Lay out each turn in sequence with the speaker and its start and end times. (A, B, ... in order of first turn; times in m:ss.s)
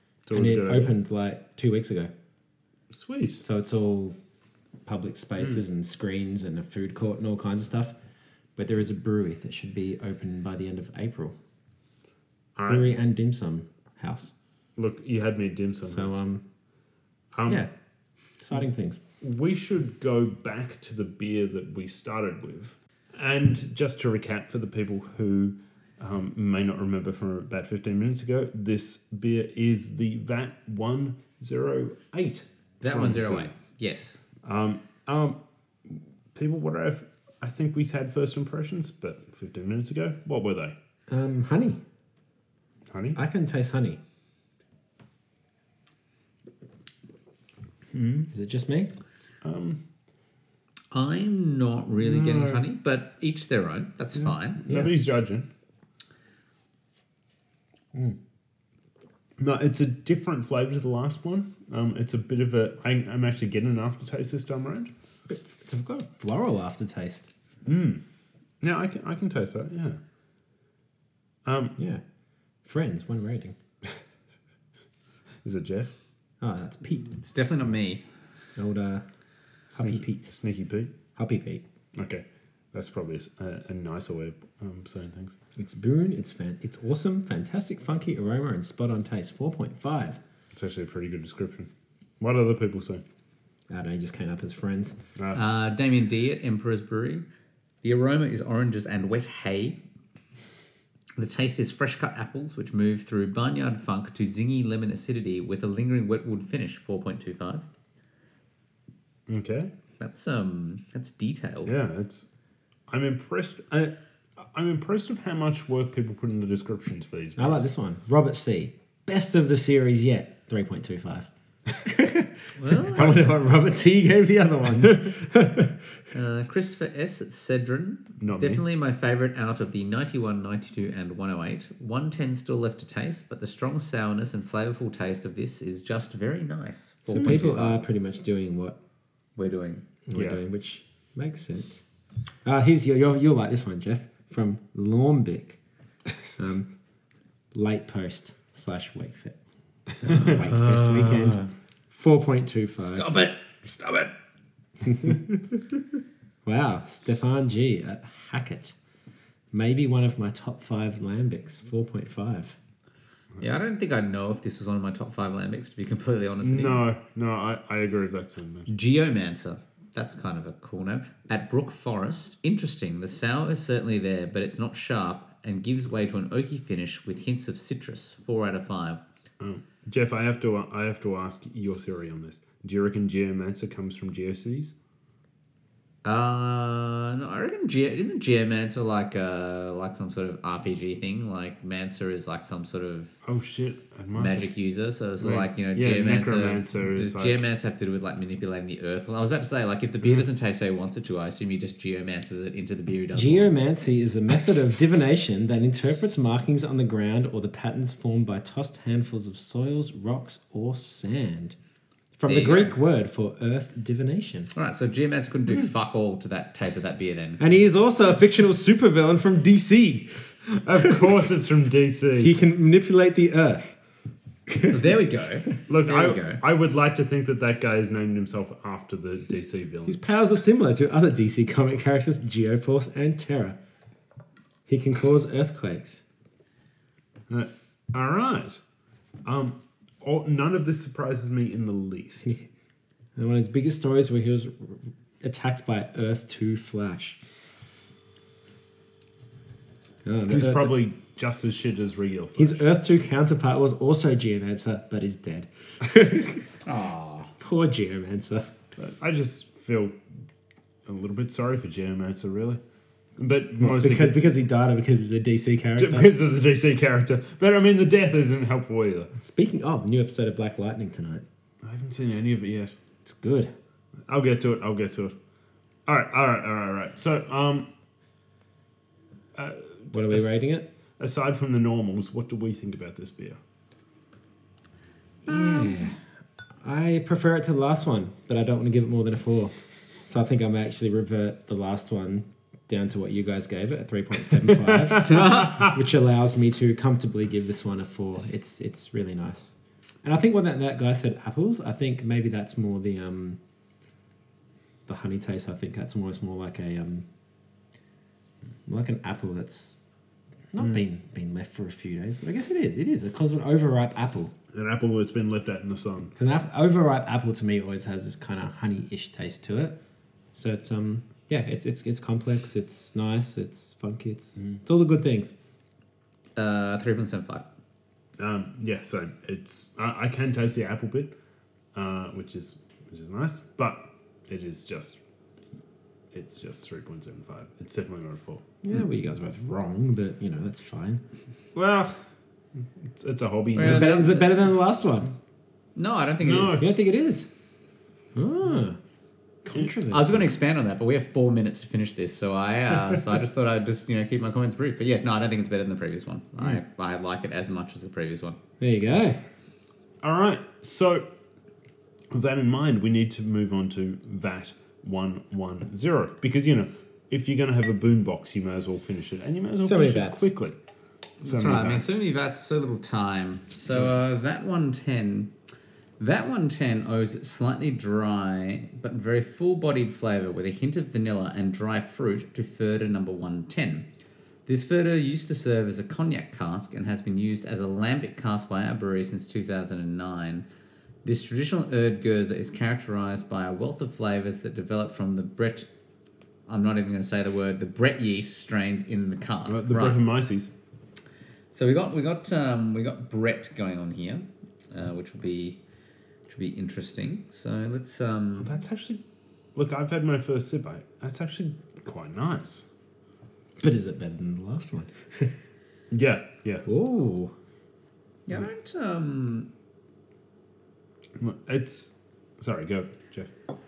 0:00.3-0:00.9 A
0:00.3-0:02.1 B
0:02.9-0:03.4 A
0:03.4-0:04.2 B
0:04.8-0:08.0 B
0:08.6-0:11.3 B
0:12.6-0:12.9 A
0:12.7-0:14.3 B
0:14.8-0:16.2 A
0:15.8-0:16.4 B
0:17.3-0:17.6 A
0:18.4-0:19.0 B
0:19.2-0:33.5 A
0:32.8-0:34.2 C
0:34.4-0:40.7 A
0:41.1-0:41.8 B
0:42.9-0:43.2 A
0:43.1-0:44.0 B
0:47.9-0:48.3 A
0:48.3-0:48.9 B
0:49.4-0:49.8 A
0:50.9-0:54.6 C
0:52.1-0:52.6 A
0:54.6-0:55.5 A
0:54.7-0:54.9 B
0:59.4-1:04.9 A
1:05.3-1:07.3 B
1:07.6-1:08.0 A
1:08.6-1:10.0 A
1:11.4-1:11.7 A
1:11.8-1:12.0 B
1:12.6-1:13.6 B
1:15.4-1:15.9 A
1:16.4-1:17.2 B
1:17.2-1:18.0 C
1:18.6-1:19.0 B
1:19.7-1:20.3 B
1:19.7-1:20.9 A
1:21.2-1:21.6 B
1:21.9-1:25.3 A
1:25.6-1:30.2 B
1:30.5-1:31.7 A
1:32.2-1:33.0 A
1:33.7-1:35.0 B
1:35.3-1:37.2 C
1:37.8-1:39.8 C
1:41.2-1:47.6 C
1:49.3-1:49.7 A
1:50.0-1:51.7 C
1:51.6-1:52.3 A
1:52.9-1:57.6 A
1:57.4-2:05.8 B
2:02.6-2:03.3 C
2:06.1-2:17.8 C
2:08.2-2:08.6 A
2:17.1-2:18.8 B
2:19.4-2:19.8 C
2:20.1-2:21.8 B
2:20.1-2:20.4 A
2:22.4-2:25.6 B
2:26.3-2:26.7 B
2:27.5-2:29.4 B
2:30.0-2:33.2 B
2:30.3-2:31.5 C
2:32.8-2:34.1 C
2:34.8-2:35.4 B
2:36.4-2:38.7 B
2:39.5-2:42.6 B
2:43.4-2:46.8 C
2:46.4-2:48.7 A
2:48.7-2:59.0 C
2:59.4-3:04.7 A
3:06.0-3:13.1 C
3:13.2-3:14.5 A
3:14.1-3:23.5 C
3:15.2-3:17.4 A
3:23.1-3:31.6 B
3:32.2-3:34.5 B
3:32.3-3:32.7 C
3:34.5-3:37.4 C
3:37.4-3:40.2 B
3:40.5-3:42.3 A
3:42.2-3:43.8 B
3:44.5-3:44.9 B
3:44.7-3:46.4 C
3:45.7-3:50.0 A
3:49.9-3:53.6 B
3:54.7-3:56.0 B
3:57.3-3:58.6 A
3:59.2-4:02.3 A
4:03.2-4:07.2 B
4:10.0-4:10.8 B
4:10.3-4:12.6 A
4:12.4-4:16.5 B
4:16.6-4:17.3 C
4:17.4-4:18.5 B
4:18.8-4:20.0 A
4:20.8-4:22.6 A
4:23.2-4:24.2 A
4:23.6-4:26.1 B
4:25.8-4:29.1 A
4:29.2-4:31.2 B
4:31.6-4:32.7 A
4:33.0-4:33.5 B
4:34.1-4:35.1 A
4:35.9-4:37.7 A
4:39.3-4:40.4 A
4:39.9-4:40.6 B
4:41.0-4:43.4 A
4:45.2-4:45.8 C
4:45.2-4:46.0 B
4:46.6-5:03.4 B
4:55.1-4:55.5 C
5:04.9-5:07.1 B
5:08.7-5:09.8 B
5:10.5-5:14.3 B
5:14.5-5:16.1 A
5:16.2-5:19.8 B
5:20.3-5:25.3 B
5:26.4-5:27.4 C
5:28.2-5:31.1 A
5:31.7-5:35.0 A
5:36.1-5:38.4 A
5:38.6-5:41.0 B
5:41.5-5:42.0 A
5:42.8-5:44.0 A
5:43.6-5:44.4 C
5:43.6-5:45.1 B
5:45.8-5:46.6 C
5:46.2-5:46.7 A
5:46.6-5:47.3 B
5:48.1-5:48.8 B
5:49.4-5:50.3 B
5:49.9-5:58.4 C
5:58.6-5:59.2 B
6:00.0-6:01.1 A
6:02.1-6:10.6 A
6:09.6-6:10.3 B
6:11.2-6:12.0 A
6:11.2-6:15.3 C
6:16.0-6:23.9 C
6:24.5-6:30.5 C
6:31.0-6:35.7 C
6:36.5-6:40.0 C
6:39.5-6:40.5 A
6:41.5-6:45.6 C
6:46.3-6:48.5 C
6:48.4-6:49.0 A
6:49.5-6:52.6 A
6:53.6-6:55.4 B
6:55.9-6:56.7 A
6:56.6-6:57.3 B
6:58.3-6:59.5 C
7:01.2-7:03.3 A